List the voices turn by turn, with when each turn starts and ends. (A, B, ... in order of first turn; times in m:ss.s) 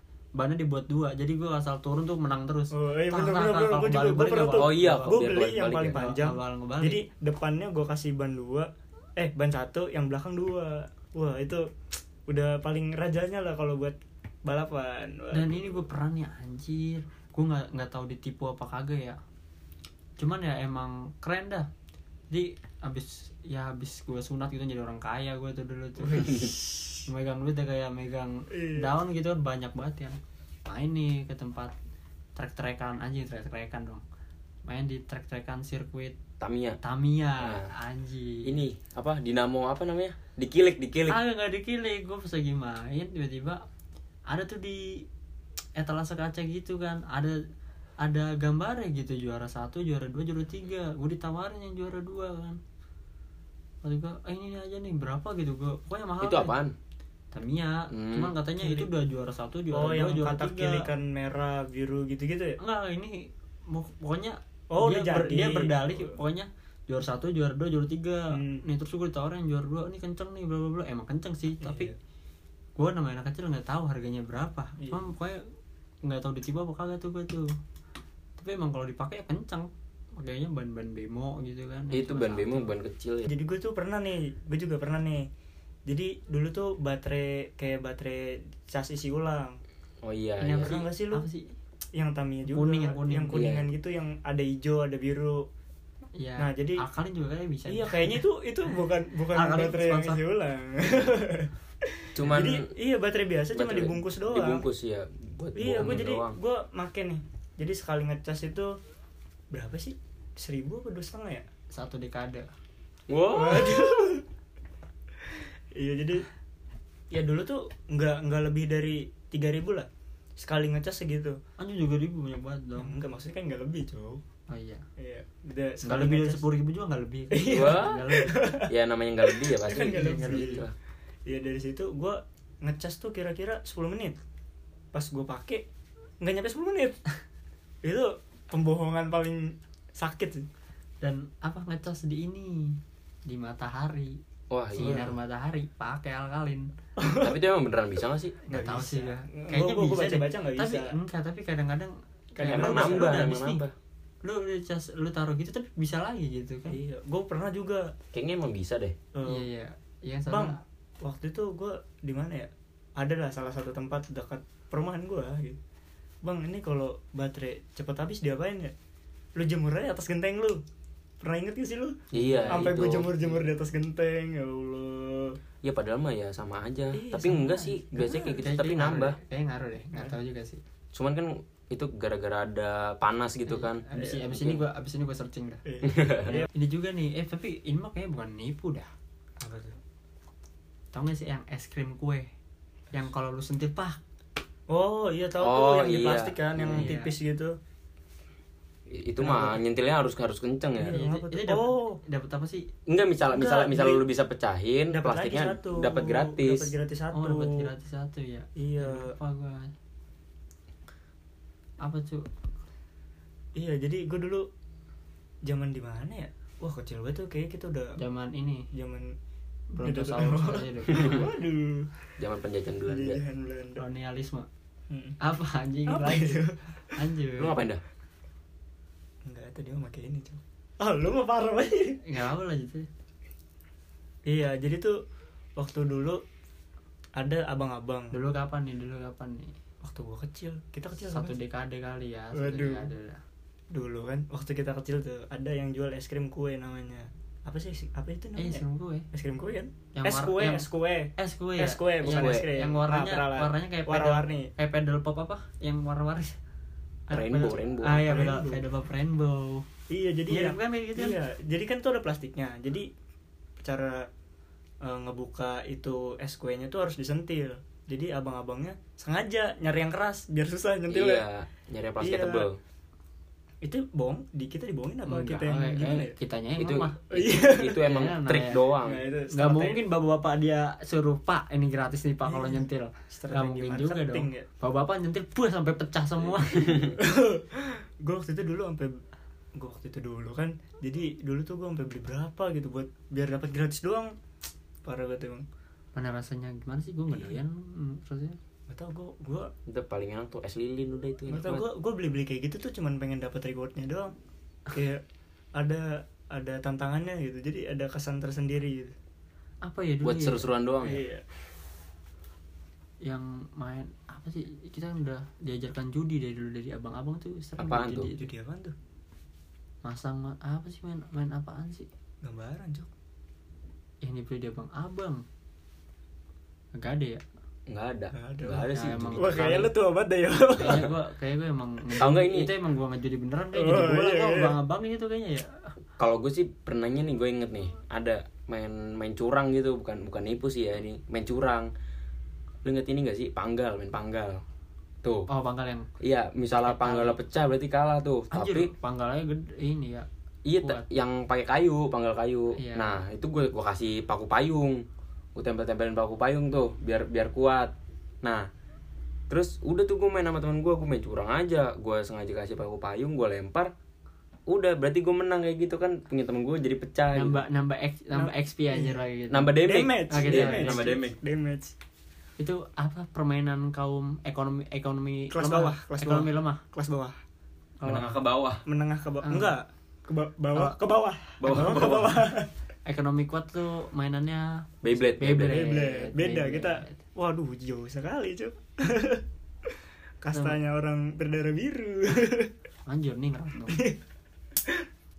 0:00.4-0:05.2 A
0:02.7-0:11.6 B
0:04.6-0:06.0 C
0:05.9-0:07.0 A
0:12.3-0:15.8 B
0:15.3-0:19.2 A
0:20.2-0:21.7 A
0:22.3-0:31.7 A
0:26.0-0:26.6 C
0:28.5-0:28.9 B
0:32.4-0:34.0 A
0:34.6-0:36.2 A
0:36.4-0:36.8 C
0:36.8-0:38.6 A
0:37.4-0:37.7 C
0:38.4-0:41.2 C
0:41.1-0:43.6 A
0:44.3-0:45.0 A
0:45.8-0:47.4 A
0:48.0-0:52.6 A
0:53.8-0:56.6 A
0:56.2-0:56.7 C
0:57.3-1:00.8 A
0:57.9-0:58.3 C
0:58.6-0:58.9 B
0:59.7-1:02.6 B
1:02.6-1:11.9 A
1:04.7-1:06.2 B
1:08.3-1:08.6 B
1:11.6-1:11.9 B
1:12.8-1:15.4 A
1:16.0-1:17.5 A
1:18.4-1:22.7 A
1:21.9-1:23.3 C
1:23.3-1:25.2 B
1:25.9-1:29.6 B
1:30.0-1:30.8 C
1:30.4-1:31.5 A
1:30.5-1:31.2 B
1:31.9-1:35.4 B
1:32.5-1:33.6 A
1:33.3-1:33.7 C
1:36.2-1:38.2 A
1:36.4-1:36.8 B
1:37.7-1:41.5 B
1:39.3-1:40.2 A
1:42.2-1:42.6 C
1:42.2-1:44.6 B
1:43.5-1:46.4 C
1:45.6-1:48.7 B
1:49.5-1:51.4 B
1:51.7-1:52.5 A
1:53.1-1:53.9 C
1:53.3-1:54.2 B
1:55.7-1:56.2 B
1:57.1-2:01.4 B
2:01.6-2:02.9 A
2:02.8-2:04.2 B
2:04.5-2:04.8 A
2:05.0-2:06.4 B
2:05.8-2:08.3 A
2:07.3-2:08.7 B
2:07.5-2:08.0 C
2:08.7-2:10.7 C
2:09.2-2:10.6 B
2:09.8-2:10.6 A
2:11.2-2:14.2 B
2:14.9-2:15.6 B
2:16.2-2:17.0 B
2:17.8-2:20.4 B
2:21.0-2:24.2 A
2:24.5-2:25.1 C
2:24.7-2:26.7 A
2:27.0-2:27.4 B
2:27.2-2:28.3 C
2:28.5-2:30.9 B
2:28.5-2:33.6 A
2:32.4-2:33.3 B
2:32.4-2:33.7 C
2:34.2-2:36.8 A
2:36.7-2:37.9 B
2:38.1-2:38.9 C
2:39.1-2:39.4 B
2:39.2-2:40.6 A
2:40.3-2:45.6 B
2:46.2-2:48.7 B
2:49.4-2:50.6 B
2:51.2-2:52.0 B
2:52.1-2:53.4 C
2:52.2-2:52.7 A
2:52.5-2:55.4 B
2:55.6-2:59.2 C
2:56.9-2:58.4 B
2:58.4-3:00.6 A
3:00.9-3:04.6 C
3:03.5-3:05.6 A
3:04.0-3:04.4 B
3:05.6-3:06.5 B
3:05.8-3:06.4 C
3:06.3-3:08.9 A
3:09.4-3:09.8 B
3:10.9-3:12.3 A
3:12.9-3:14.0 A
3:14.7-3:17.5 B
3:15.4-3:17.0 C
3:16.7-3:17.1 A
3:18.9-3:20.9 C
3:19.2-3:19.6 B
3:20.7-3:22.0 B
3:20.8-3:22.7 A
3:22.9-3:26.7 C
3:23.3-3:24.0 B
3:24.9-3:27.7 B
3:27.1-3:29.7 A
3:28.6-3:29.1 B
3:31.8-3:32.2 A
3:33.6-3:34.5 B
3:35.5-3:37.9 B
3:38.0-3:38.6 A
3:38.7-3:39.1 B
3:39.7-3:41.3 A
3:39.8-3:41.9 B
3:42.2-3:43.2 C
3:42.9-3:43.8 B
3:43.8-3:44.5 A
3:44.9-3:45.2 B
3:45.2-3:46.4 A
3:45.9-3:46.6 B
3:46.9-3:47.6 A
3:47.4-3:47.8 C
3:49.2-3:52.0 B
3:52.0-3:52.9 A
3:54.2-3:54.9 B
3:55.6-3:56.2 B
3:57.2-3:58.1 B
3:58.1-3:59.5 A
3:59.8-4:01.3 B
4:01.1-4:03.2 A
4:02.4-4:02.9 B
4:03.7-4:14.5 B
4:08.4-4:09.0 A
4:09.9-4:10.6 A
4:11.2-4:16.4 A
4:12.1-4:12.4 C
4:17.1-4:18.1 C
4:17.1-4:19.6 A
4:17.1-4:18.6 B
4:19.9-4:22.9 B
4:20.3-4:21.2 A
4:23.6-4:24.1 B
4:24.8-4:31.2 B
4:30.9-4:32.6 C
4:32.0-4:32.5 B
4:33.6-4:36.1 B
4:35.0-4:37.0 A
4:36.6-4:39.0 C
4:37.1-4:37.8 B
4:37.8-4:38.6 A
4:38.8-4:39.8 B
4:39.3-4:46.8 A
4:42.2-4:44.5 B
4:46.6-4:46.9 C
4:46.7-4:48.9 B
4:49.6-4:54.1 B
4:54.8-4:55.4 B
4:55.9-4:58.4 A
4:57.1-4:57.4 B
4:58.7-4:59.5 B
4:59.7-5:01.6 C
5:01.3-5:04.1 B
5:04.7-5:05.0 B
5:05.6-5:08.9 B
5:09.6-5:10.4 A
5:10.0-5:11.0 C
5:10.8-5:11.2 B
5:13.0-5:18.2 A
5:17.6-5:18.1 C
5:18.2-5:18.7 B
5:19.8-5:21.9 A
5:22.2-5:22.9 B
5:24.0-5:25.2 A
5:26.8-5:27.2 A
5:27.7-5:29.5 C
5:28.1-5:30.8 B
5:28.7-5:29.7 A
5:30.5-5:35.5 A
5:32.0-5:32.5 C
5:33.5-5:34.6 B
5:36.0-5:41.7 C
5:42.6-5:44.4 C
5:45.3-5:45.9 A
5:46.0-5:48.7 C
5:46.6-5:47.2 A
5:48.3-5:50.1 A
5:50.4-5:54.8 C
5:50.6-5:50.8 A
5:52.5-5:53.0 A
5:55.3-5:58.4 C
5:59.3-6:03.7 C
6:04.5-6:07.4 C
6:07.1-6:09.5 A
6:08.1-6:09.0 B
6:09.3-6:11.2 C
6:09.6-6:11.7 B
6:10.1-6:11.0 A
6:12.4-6:16.6 A
6:15.3-6:17.2 B
6:17.8-6:18.2 A
6:17.8-6:18.6 C
6:18.6-6:22.5 B
6:19.2-6:19.5 A
6:21.4-6:22.2 C
6:22.8-6:27.0 A
6:24.8-6:25.6 C
6:25.4-6:29.2 B
6:30.2-6:32.5 B
6:32.9-6:33.8 A
6:33.7-6:34.0 B